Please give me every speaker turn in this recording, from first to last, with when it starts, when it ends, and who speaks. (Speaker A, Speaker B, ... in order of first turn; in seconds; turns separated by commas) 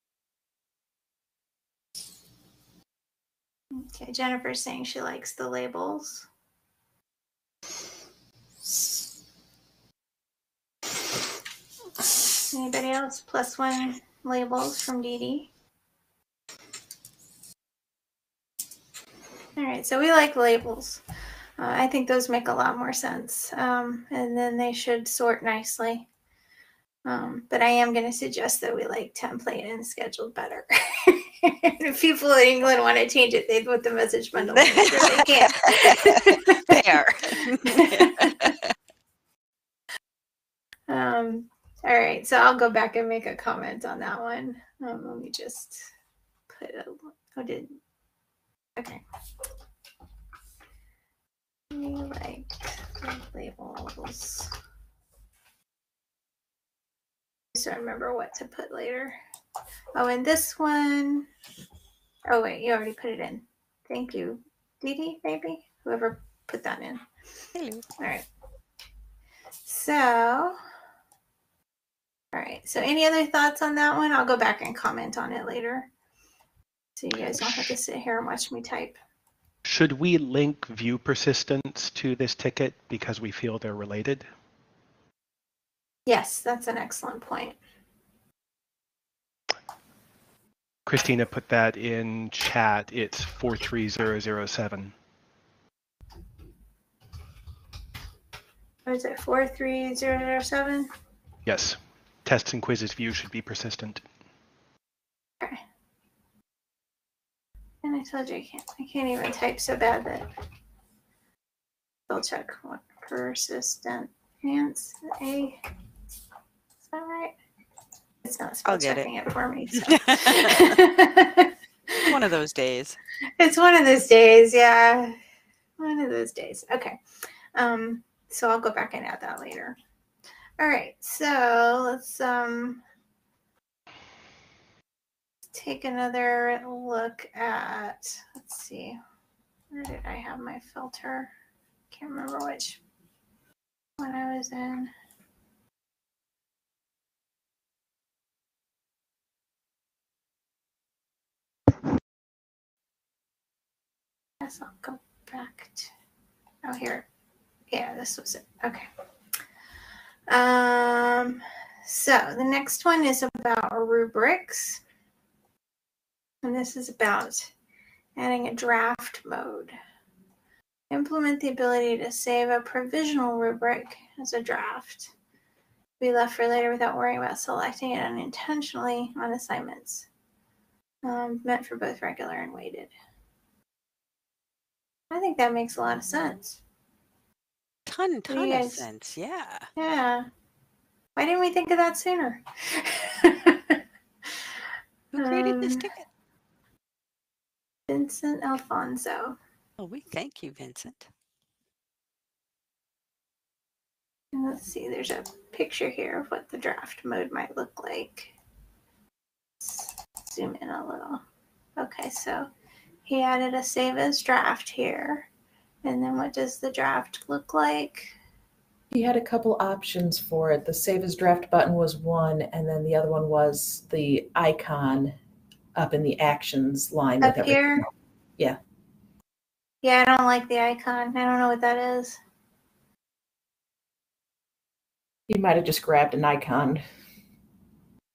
Speaker A: 3.8-6.3, Speaker A: 12.5-15.5, Speaker A: 19.6-21.0, Speaker A: 21.6-26.1, Speaker A: 27.1-38.5, Speaker B: 34.5-38.7, Speaker A: 40.9-45.9, Speaker A: 46.5-47.8, Speaker A: 48.8-49.0, Speaker A: 51.7-54.5, Speaker A: 57.5-59.2, Speaker A: 60.0-61.3, Speaker A: 62.3-67.0, Speaker B: 67.5-67.8, Speaker A: 68.0-68.3, Speaker A: 69.7-70.6, Speaker A: 72.3-75.9, Speaker A: 77.0-79.0, Speaker C: 77.4-77.8, Speaker C: 79.7-84.2, Speaker A: 86.1-87.6, Speaker C: 90.9-94.9, Speaker A: 98.9-100.9, Speaker C: 101.5-104.0, Speaker A: 107.8-110.3, Speaker A: 112.1-115.6, Speaker A: 116.9-117.3, Speaker A: 118.2-122.1, Speaker B: 118.7-119.1, Speaker B: 119.8-120.8, Speaker B: 122.0-123.0, Speaker A: 123.4-125.2, Speaker A: 125.8-127.0, Speaker A: 127.6-129.8, Speaker A: 130.6-132.8, Speaker A: 135.5-139.0, Speaker A: 139.7-141.3, Speaker A: 141.9-142.8, Speaker A: 144.0-144.9, Speaker A: 154.4-155.9, Speaker A: 156.6-157.1, Speaker A: 157.7-158.9, Speaker A: 160.3-164.8, Speaker A: 166.4-167.5, Speaker A: 168.2-169.8, Speaker A: 170.9-175.1, Speaker A: 176.0-180.1, Speaker A: 181.0-182.9, Speaker A: 185.1-186.6, Speaker B: 187.9-189.7, Speaker A: 188.3-188.8, Speaker A: 189.8-190.3, Speaker A: 191.2-193.8, Speaker B: 195.1-196.0, Speaker A: 195.2-195.9, Speaker A: 197.9-199.4, Speaker B: 199.8-201.1, Speaker A: 204.3-208.3, Speaker A: 209.6-211.2, Speaker A: 211.8-212.5, Speaker A: 213.1-215.3, Speaker A: 215.8-218.2, Speaker D: 218.9-225.2, Speaker D: 225.8-228.6, Speaker A: 227.2-227.9, Speaker A: 229.8-232.2, Speaker D: 235.3-236.8